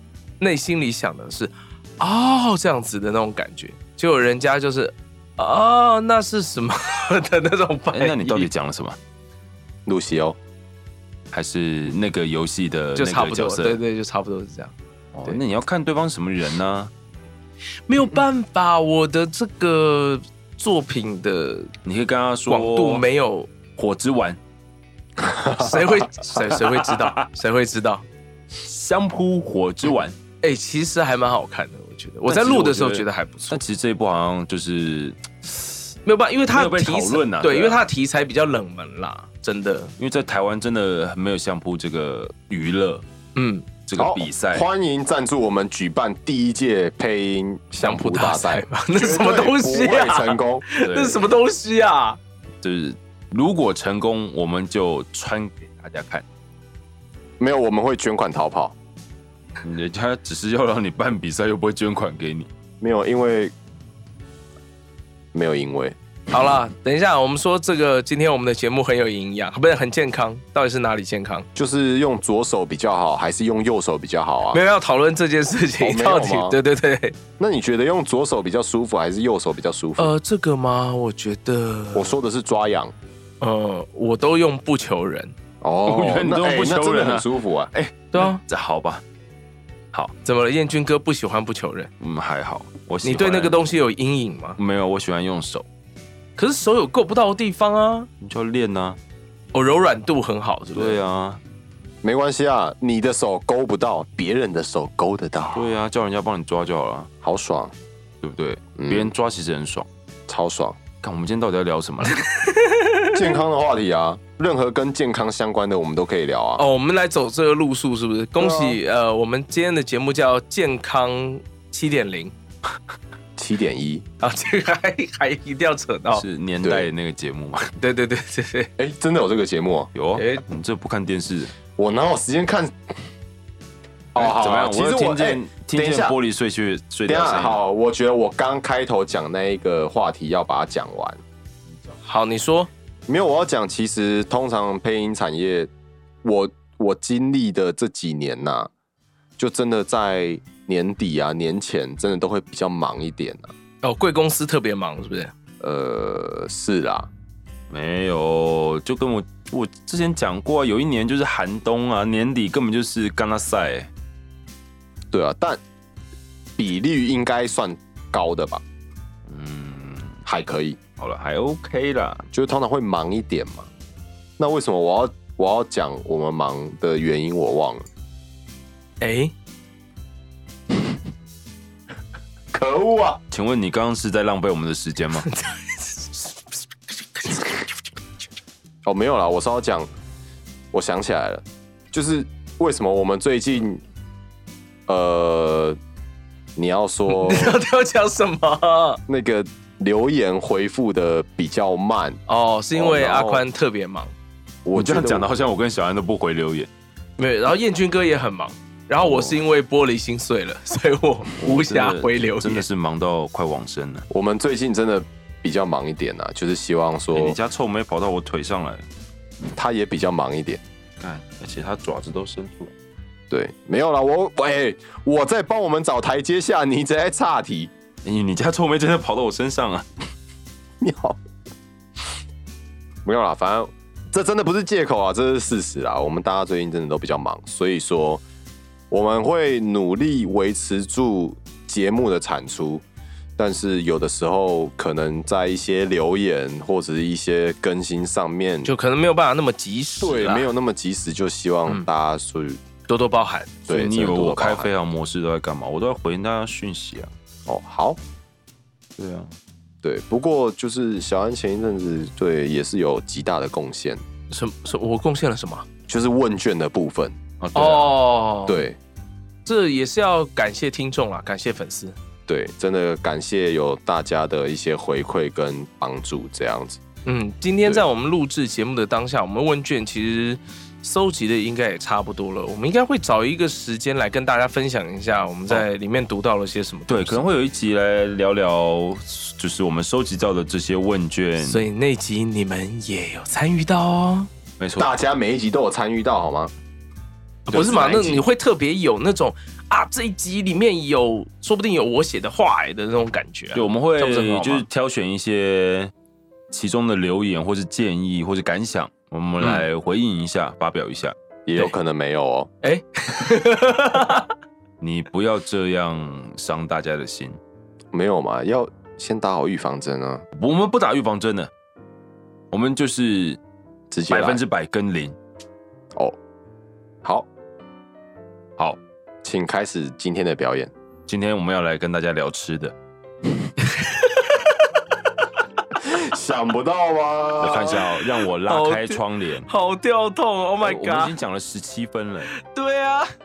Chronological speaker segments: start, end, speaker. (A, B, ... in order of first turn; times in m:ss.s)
0:00.4-0:08.5 A
0:07.9-0:09.0 B
0:09.8-0:10.4 C
0:11.3-0:13.8 B
0:12.9-0:14.7 A
0:15.1-0:16.9 B
0:17.9-0:21.7 A
0:21.8-0:23.0 B
0:22.5-0:23.5 A
0:23.8-0:24.4 B
0:25.4-0:28.0 A
0:25.4-0:25.7 C
0:28.6-0:30.2 B
0:30.4-0:33.6 A
0:32.3-0:35.6 B
0:36.0-0:39.9 A
0:36.5-0:37.8 B
0:40.0-0:43.0 B
0:43.4-0:43.7 A
0:43.9-0:44.7 B
0:44.0-0:50.6 C
0:47.8-0:52.2 A
0:50.8-0:51.3 B
0:52.6-0:56.2 B
0:57.4-0:58.7 C
0:59.6-1:02.5 B
1:02.8-1:03.5 C
1:05.3-1:06.0 C
1:06.3-1:11.5 A
1:11.5-1:14.6 C
1:14.5-1:17.2 A
1:15.8-1:16.6 C
1:17.4-1:20.1 C
1:20.0-1:22.2 A
1:21.9-1:22.9 C
1:23.4-1:25.3 A
1:25.6-1:27.9 C
1:25.8-1:27.3 B
1:28.0-1:29.0 B
1:28.1-1:28.4 A
1:30.2-1:31.9 A
1:32.0-1:33.6 B
1:33.0-1:34.6 A
1:34.6-1:35.6 B
1:36.4-1:38.1 A
1:38.2-1:39.0 B
1:39.5-1:41.0 A
1:40.7-1:41.4 B
1:42.0-1:45.7 C
1:45.5-1:47.1 B
1:47.2-1:47.7 C
1:48.2-1:49.9 B
1:48.8-1:49.1 C
1:50.3-1:50.8 C
1:51.0-1:52.2 B
1:52.1-1:53.2 A
1:53.1-1:56.6 C
1:56.6-2:02.3 A
1:58.4-1:58.8 C
2:03.4-2:04.0 C
2:04.2-2:06.2 A
2:06.1-2:07.7 B
2:06.6-2:06.9 C
2:07.8-2:08.7 A
2:08.8-2:09.9 C
2:09.9-2:11.5 B
2:10.2-2:10.4 A
2:11.8-2:12.7 C
2:14.1-2:16.2 C
2:14.1-2:17.6 B
2:17.0-2:21.2 C
2:22.0-2:22.7 A
2:23.1-2:25.7 C
2:26.2-2:28.7 C
2:29.4-2:33.5 C
2:33.8-2:35.3 A
2:35.6-2:37.1 C
2:37.7-2:43.9 B
2:45.1-2:45.6 C
2:46.6-2:48.6 C
2:49.3-2:50.2 B
2:50.2-2:50.8 C
2:51.0-2:52.2 B
2:52.3-2:53.7 C
2:54.4-2:57.8 C
2:59.0-2:59.3 A
3:02.5-3:03.2 C
3:03.3-3:05.3 B
3:05.2-3:06.3 A
3:07.1-3:07.6 A
3:08.8-3:09.9 C
3:10.7-3:13.8 C
3:14.9-3:15.8 C
3:16.6-3:17.6 C
3:17.1-3:19.0 A
3:19.1-3:22.2 C
3:22.3-3:24.1 A
3:22.7-3:23.4 C
3:24.6-3:25.3 C
3:24.7-3:26.7 B
3:27.2-3:32.6 A
3:29.0-3:29.4 B
3:31.4-3:34.0 B
3:34.1-3:37.4 C
3:37.1-3:38.8 B
3:39.5-3:40.6 C
3:41.0-3:42.7 B
3:43.3-3:47.7 C
3:48.0-3:49.9 B
3:50.8-3:51.2 C
3:53.0-3:58.2 C
3:58.9-4:02.8 C
4:03.4-4:08.7 C
4:08.6-4:10.5 A
4:10.0-4:12.6 C
4:12.9-4:13.5 A
4:13.7-4:14.7 C
4:13.7-4:17.1 B
4:17.5-4:18.0 C
4:19.0-4:19.3 B
4:19.8-4:24.0 C
4:24.3-4:25.6 A
4:25.9-4:27.2 C
4:27.4-4:28.0 B
4:27.5-4:28.6 A
4:28.5-4:28.8 C
4:29.4-4:32.0 A
4:32.3-4:36.8 C
4:37.0-4:47.2 A
4:46.9-4:51.7 B
4:51.4-4:54.3 A
4:54.6-4:54.9 B
4:54.8-4:56.5 C
4:57.5-5:04.6 A
4:57.5-4:58.3 C
5:03.5-5:05.9 B
5:06.5-5:11.1 B
5:11.4-5:12.5 C
5:12.6-5:14.3 A
5:14.8-5:17.4 B
5:17.9-5:20.2 C
5:20.4-5:21.5 B
5:22.5-5:23.4 B
5:23.9-5:24.4 C
5:24.1-5:25.2 B
5:29.2-5:30.7 C
5:31.1-5:32.7 B
5:33.6-5:34.5 A
5:35.8-5:37.9 C
5:37.4-5:39.5 B
5:38.4-5:41.2 A
5:40.6-5:42.3 B
5:42.3-5:43.1 A